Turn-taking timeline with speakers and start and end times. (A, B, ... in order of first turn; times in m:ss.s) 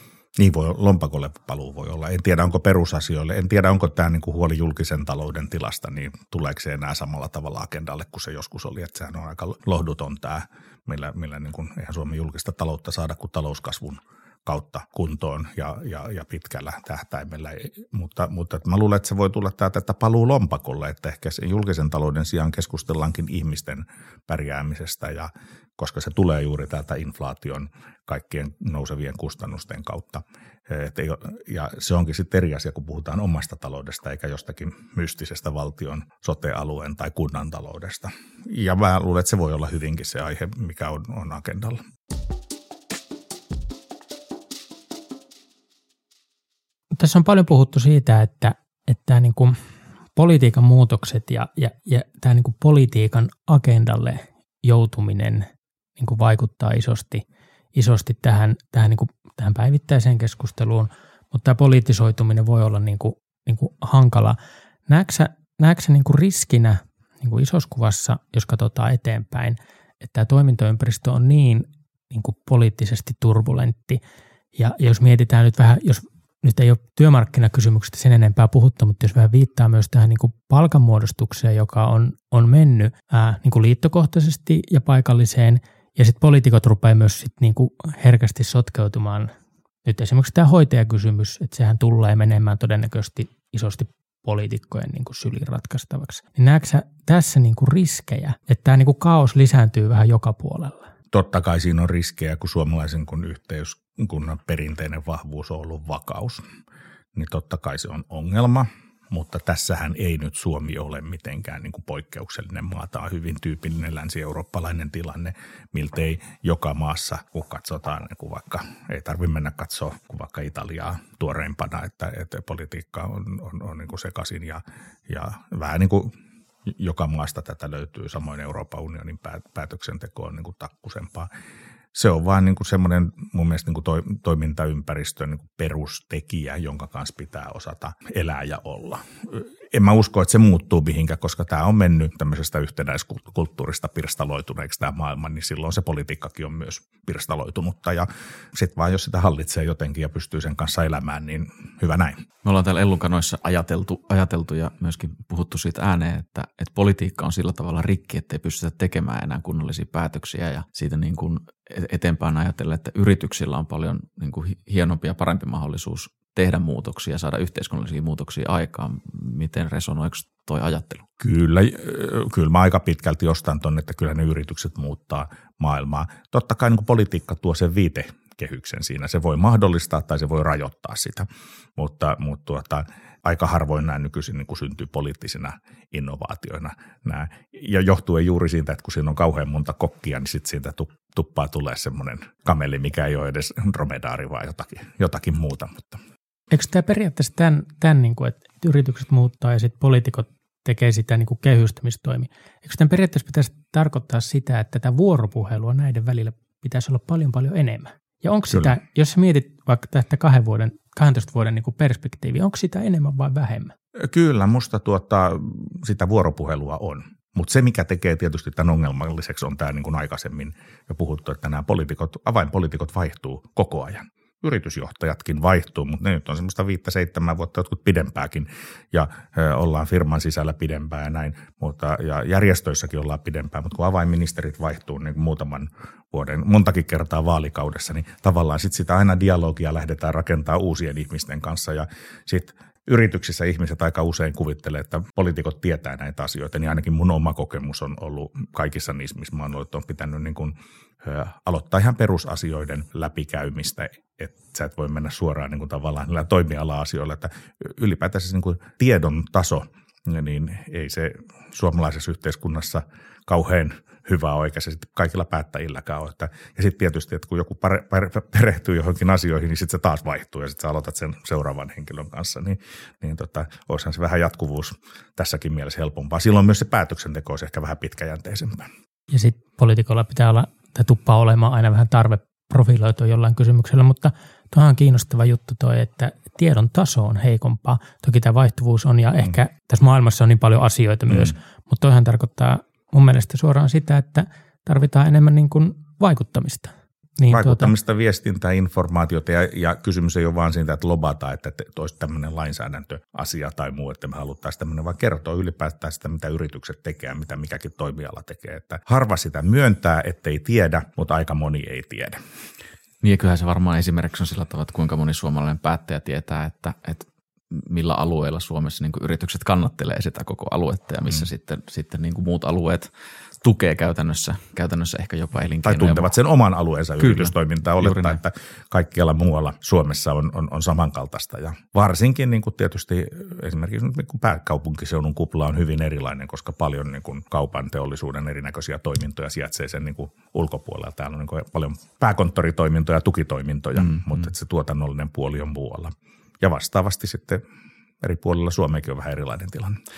0:00.4-0:41.8 A
0:47.0-0:49.6 B
0:50.2-0:55.5 B
0:56.0-0:57.2 B
0:57.8-1:04.4 B
1:04.9-1:14.0 B
1:14.6-1:29.3 B
1:29.8-1:40.8 B
1:41.1-1:46.4 A
1:47.2-2:06.2 A
2:06.7-2:11.3 A
2:11.9-2:32.2 A
2:32.4-2:51.0 C
2:51.2-3:16.0 A
3:16.5-3:33.7 B
3:34.0-4:38.7 A
4:39.1-4:57.7 B
4:57.3-5:12.2 A
5:13.0-5:22.9 C
5:23.4-5:26.1 C
5:25.6-5:47.4 A
5:27.0-5:28.2 C
5:48.0-5:49.8 A